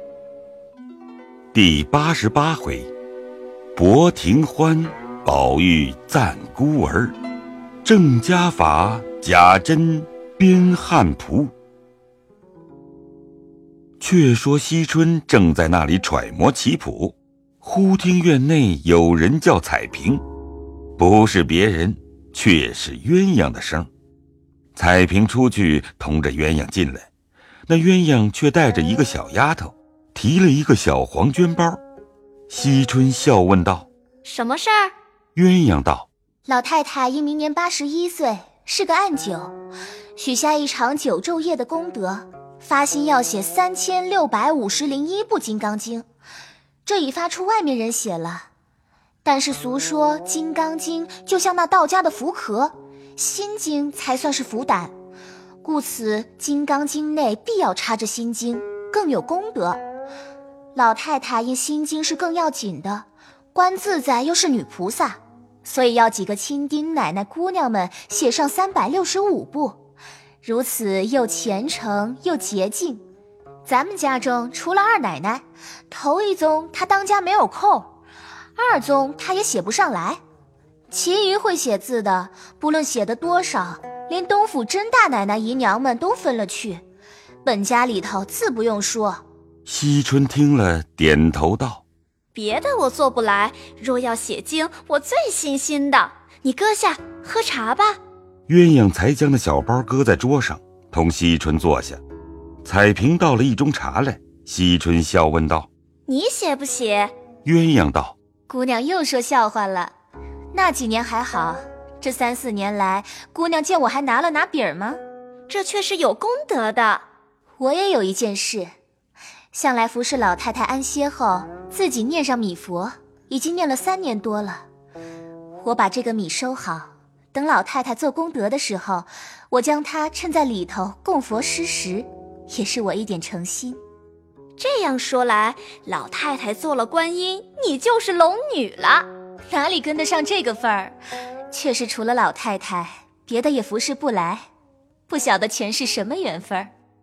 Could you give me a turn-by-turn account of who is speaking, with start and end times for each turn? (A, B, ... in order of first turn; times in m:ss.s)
0:01.5-0:02.9 A
0:03.8-0:07.1 A
0:07.8-0:11.5 A
0:14.0-0:20.2 A
0:21.0-0:23.9 A
0:24.7-0:27.1 A
0:27.7-0:31.8 A
0:32.5-0:33.9 A
0:34.2-0:34.9 B
0:35.3-0:36.1 A
0:36.4-0:39.6 C
0:40.2-0:46.0 C
0:46.8-0:48.5 C
0:49.2-0:54.9 C
0:55.6-0:59.8 C
1:00.7-1:09.8 C
1:10.4-1:13.0 C
1:13.6-1:17.9 C
1:18.6-1:20.2 C
1:20.9-1:26.8 C
1:27.4-1:29.2 C
1:29.6-1:31.8 A
1:32.3-1:38.0 B
1:38.5-1:42.0 A
1:42.6-1:45.7 A
1:46.1-1:47.1 B
1:47.4-1:48.2 A
1:48.5-1:49.9 C
1:50.5-1:55.0 C
1:55.5-1:57.0 B
1:57.6-1:58.7 C
1:59.5-2:04.6 C
2:05.6-2:13.8 C
2:14.6-2:19.0 B
2:19.5-2:21.0 C
2:21.5-2:24.4 C
2:25.1-2:26.7 C